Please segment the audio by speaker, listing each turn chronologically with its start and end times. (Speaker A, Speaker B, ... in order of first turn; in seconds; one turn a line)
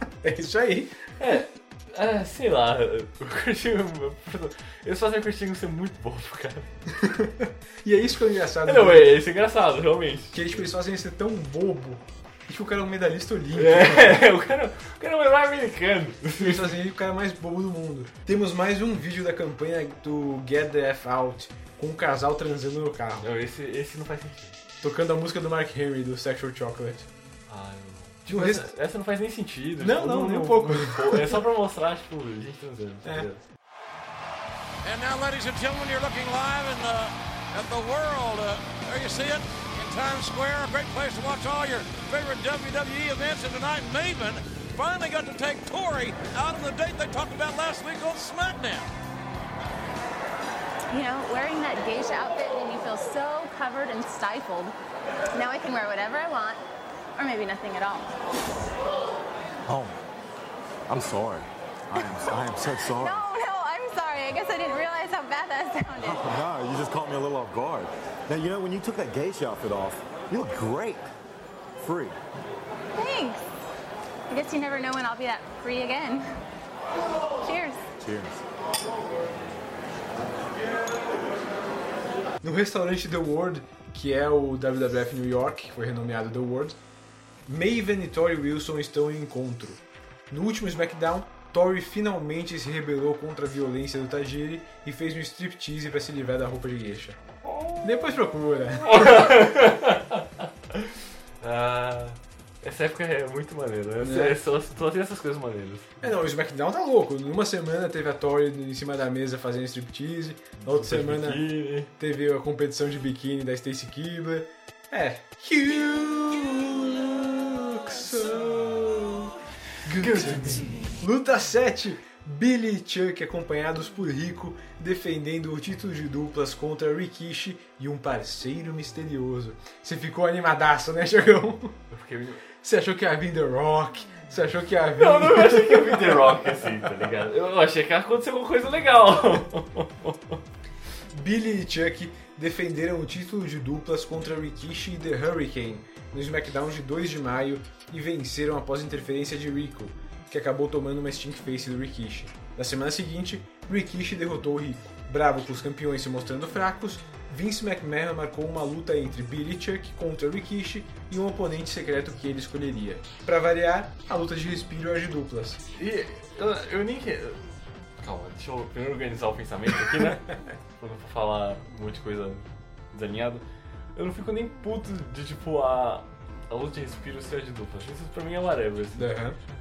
Speaker A: 0.2-1.0
Speaker B: 1.2-6.7
Speaker A: 7.0-9.2
Speaker B: 8.6-10.7
Speaker A: 10.3-14.2
Speaker B: 13.6-16.8
Speaker A: 16.4-23.3
Speaker B: 23.2-24.6
Speaker A: 24.8-27.1
Speaker B: 27.5-33.4
Speaker A: 28.3-28.8
Speaker A: 29.8-31.4
Speaker C: 34.8-48.9
Speaker D: 50.9-54.8
Speaker D: 55.3-56.6
Speaker D: 57.2-58.1
Speaker E: 59.7-60.0
Speaker E: 60.9-63.2
Speaker D: 63.0-66.3
Speaker E: 66.0-71.1
Speaker E: 71.8-72.2
Speaker D: 73.0-73.4
Speaker D: 74.3-76.2
Speaker D: 77.4-77.8
Speaker E: 78.0-78.4
Speaker A: 82.4-86.8
Speaker A: 87.5-97.2
Speaker B: 97.5-97.8
Speaker A: 97.8-99.3
Speaker B: 98.8-106.1
Speaker A: 104.0-104.4
Speaker A: 106.0-119.3
Speaker B: 110.6-111.9
Speaker A: 119.9-131.8
Speaker B: 119.9-120.9
Speaker B: 131.9-132.4
Speaker A: 132.6-136.4
Speaker B: 135.0-140.4
Speaker A: 141.1-165.6
Speaker B: 165.7-173.4
Speaker B: 173.9-179.1
Speaker A: 178.9-179.4